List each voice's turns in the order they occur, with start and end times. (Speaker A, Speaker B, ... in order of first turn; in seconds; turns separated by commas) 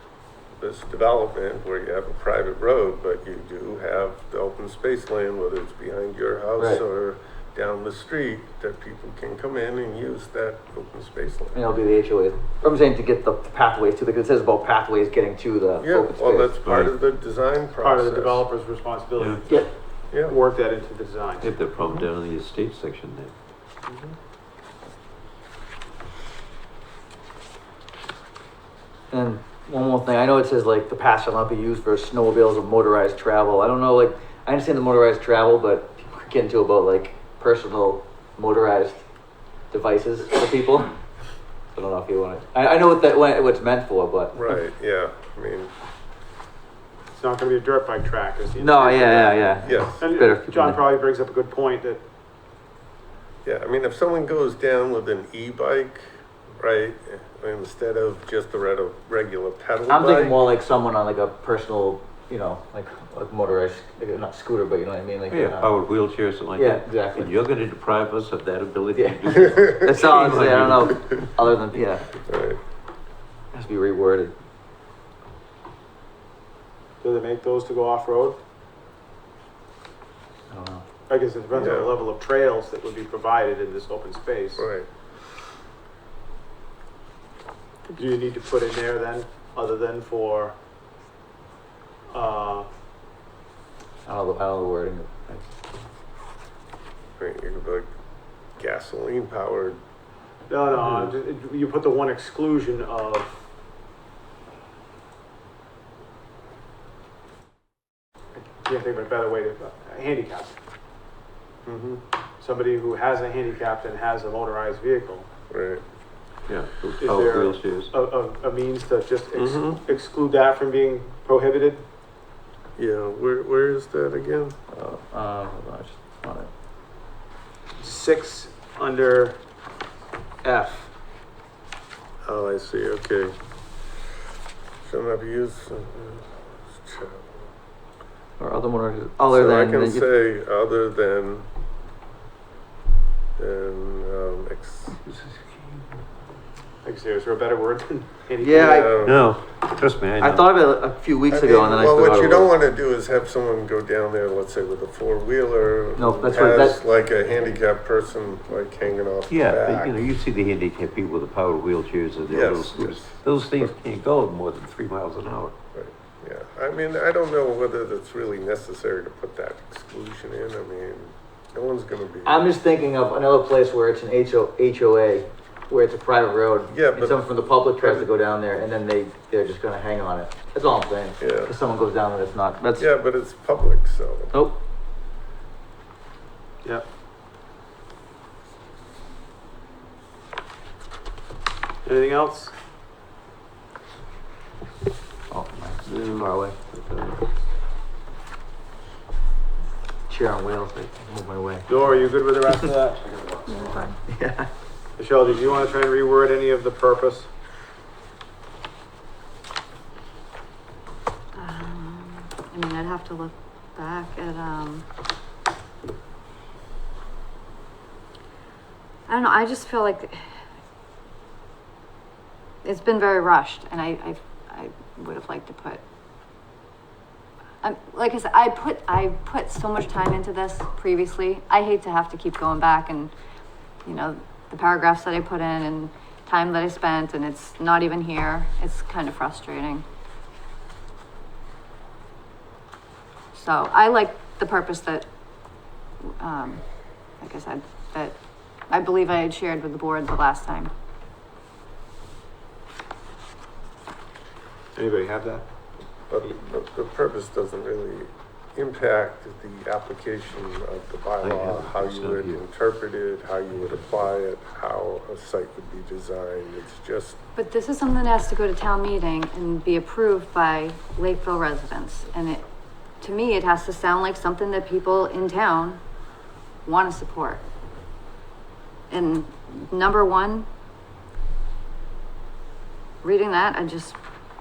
Speaker A: 0.6-11.6, Speaker B: 11.5-16.5, Speaker A: 15.8-18.4, Speaker C: 16.6-16.9, Speaker D: 17.8-21.6, Speaker A: 20.1-20.4, Speaker C: 21.4-23.3, Speaker B: 29.1-39.0, Speaker B: 39.7-40.9, Speaker B: 41.7-44.5, Speaker A: 44.3-45.7, Speaker D: 47.1-52.0, Speaker B: 48.6-50.8, Speaker A: 49.6-50.1, Speaker A: 53.4-60.5, Speaker B: 59.9-65.7, Speaker C: 65.3-71.3, Speaker B: 66.5-67.3, Speaker B: 69.0-72.1, Speaker A: 69.4-69.8, Speaker A: 72.2-72.6, Speaker B: 73.5-74.3, Speaker D: 77.0-78.4, Speaker B: 80.5-80.8, Speaker D: 81.1-84.7, Speaker A: 81.5-82.0, Speaker A: 84.5-84.9, Speaker D: 88.0-90.5, Speaker D: 92.1-92.7, Speaker B: 94.0-95.5, Speaker A: 97.2-97.9, Speaker A: 98.6-99.8, Speaker D: 100.5-103.3, Speaker D: 108.4-110.5, Speaker A: 111.7-112.0, Speaker D: 112.4-115.3, Speaker A: 115.5-115.8, Speaker C: 116.5-117.9, Speaker D: 117.0-121.8, Speaker A: 119.3-119.8, Speaker A: 122.8-124.6, Speaker B: 124.7-126.5, Speaker D: 127.8-129.4, Speaker D: 130.4-130.9, Speaker A: 132.2-133.3, Speaker A: 134.8-137.4, Speaker B: 138.4-140.1, Speaker A: 139.3-141.5, Speaker A: 143.4-145.0, Speaker C: 145.0-145.8, Speaker D: 146.8-149.0, Speaker B: 148.4-148.9, Speaker A: 148.6-149.3, Speaker C: 149.0-150.4, Speaker B: 150.2-152.5, Speaker A: 151.3-160.1, Speaker B: 155.9-156.8, Speaker C: 159.3-165.5, Speaker A: 162.3-163.7, Speaker A: 165.7-172.5, Speaker B: 172.2-182.9, Speaker A: 176.7-178.1, Speaker A: 181.2-181.5, Speaker A: 182.8-184.4, Speaker B: 184.3-184.6, Speaker D: 191.8-192.5, Speaker B: 195.3-196.6, Speaker C: 195.8-197.2, Speaker B: 200.1-202.6, Speaker D: 201.7-203.5, Speaker E: 203.5-203.9, Speaker B: 204.0-204.5, Speaker D: 205.0-207.3, Speaker E: 211.3-214.8, Speaker E: 219.1-220.2, Speaker E: 222.6-225.8, Speaker E: 227.6-233.1, Speaker E: 233.8-239.8, Speaker E: 243.3-245.1, Speaker E: 246.0-246.6, Speaker E: 247.2-248.2, Speaker E: 248.7-250.7, Speaker D: 254.7-255.4, Speaker A: 256.1-267.2, Speaker C: 261.2-262.4, Speaker E: 267.4-272.4, Speaker E: 273.0-275.8, Speaker E: 276.6-277.4, Speaker E: 278.9-280.5, Speaker E: 283.0-284.0